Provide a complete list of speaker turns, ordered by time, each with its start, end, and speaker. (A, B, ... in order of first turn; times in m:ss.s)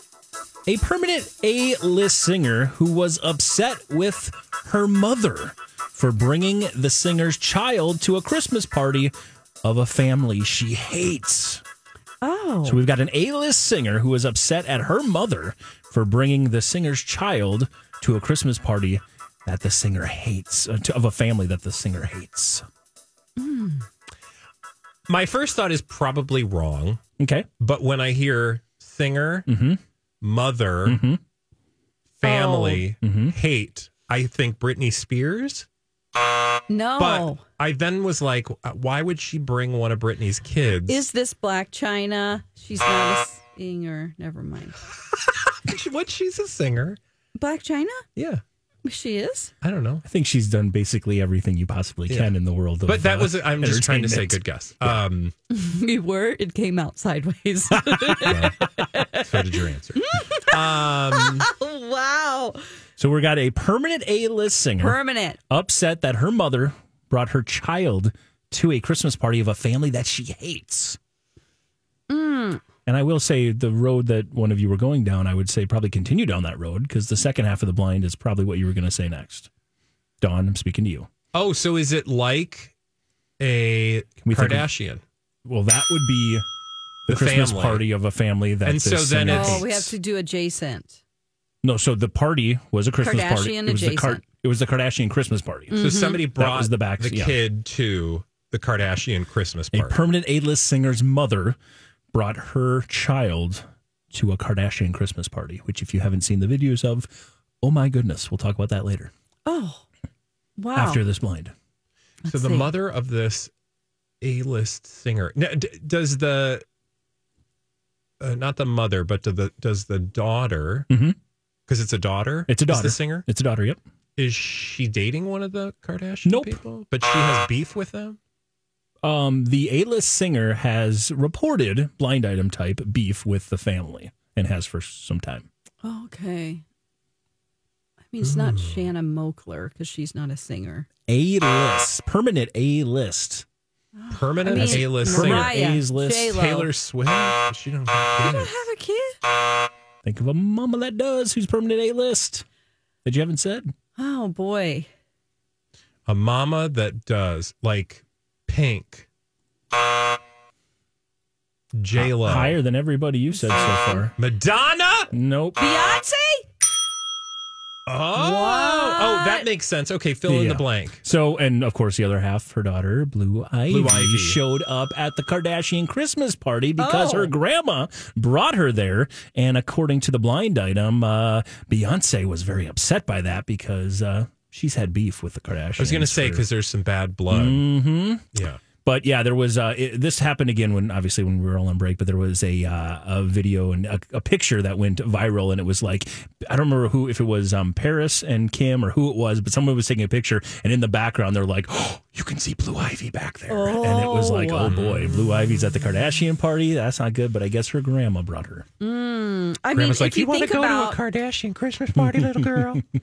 0:00.6-0:11.6 A
0:12.2-0:12.8 B
0:12.6-0:22.6 A
0:23.4-0:23.8 B
0:25.1-0:27.0 C
0:27.2-0:27.5 A
0:27.6-0:29.5 C
0:29.5-0:29.8 A
0:30.2-0:31.0 C
0:30.8-0:31.2 A
0:32.2-0:35.6 C
0:32.2-0:32.8 B
0:33.0-0:33.3 A
0:36.7-0:37.4 B
0:37.0-0:41.0 C
0:40.9-0:44.8 B
0:45.4-0:47.0 C
0:47.4-0:48.0 B
0:48.2-0:48.4 C
0:48.8-0:49.5 B
0:49.6-0:50.0 C
0:50.0-0:55.0 A
0:52.8-0:55.3 C
0:55.5-0:59.3 B
0:57.8-0:58.3 A
0:58.2-1:01.5 C
1:00.0-1:02.6 B
1:03.0-1:05.0 A
1:04.8-1:05.4 B
1:05.5-1:11.0 A
1:12.1-1:12.6 B
1:12.8-1:19.5 A
1:20.2-1:21.1 A
1:21.3-1:22.7 C
1:23.4-1:25.0 C
1:24.2-1:24.7 A
1:25.4-1:26.4 A
1:27.1-1:27.8 C
1:27.1-1:29.9 A
1:28.6-1:29.8 C
1:29.3-1:31.0 B
1:31.6-1:37.4 A
1:33.0-1:34.2 B
1:35.7-1:36.2 B
1:35.8-1:40.0 C
1:39.7-1:41.6 A
1:42.1-1:49.1 A
1:49.4-1:49.8 B
1:50.6-1:51.0 B
1:50.7-1:51.5 A
1:52.2-1:52.7 B
1:52.3-1:53.5 C
1:54.2-1:56.6 C
1:58.2-2:00.9 C
2:00.9-2:01.2 A
2:01.7-2:03.2 C
2:02.5-2:03.8 A
2:04.2-2:08.2 C
2:06.2-2:06.6 A
2:09.0-2:15.5 A
2:15.8-2:16.6 B
2:18.1-2:20.9 B
2:18.2-2:18.9 C
2:21.1-2:23.4 A
2:24.0-2:26.7 B
2:24.1-2:25.6 C
2:24.5-2:26.4 A
2:26.3-2:28.6 C
2:28.2-2:29.2 B
2:30.0-2:32.4 A
2:33.0-2:33.7 A
2:34.0-2:34.9 B
2:36.1-2:39.0 C
2:41.7-2:42.6 C
2:41.9-2:44.1 A
2:43.3-2:44.1 B
2:44.2-2:45.1 C
2:45.1-2:45.6 A
2:45.6-2:46.4 B
2:47.9-2:51.0 C
2:48.1-2:49.5 B
2:50.2-3:06.5 A
2:53.7-2:54.4 C
2:56.8-2:57.3 B
3:05.8-3:07.7 C
3:07.3-3:08.2 A
3:08.3-3:08.6 C
3:08.8-3:28.7 A
3:23.5-3:24.7 B
3:24.6-3:25.6 C
3:28.8-3:31.0 B
3:29.7-3:32.8 C
3:32.0-3:32.8 A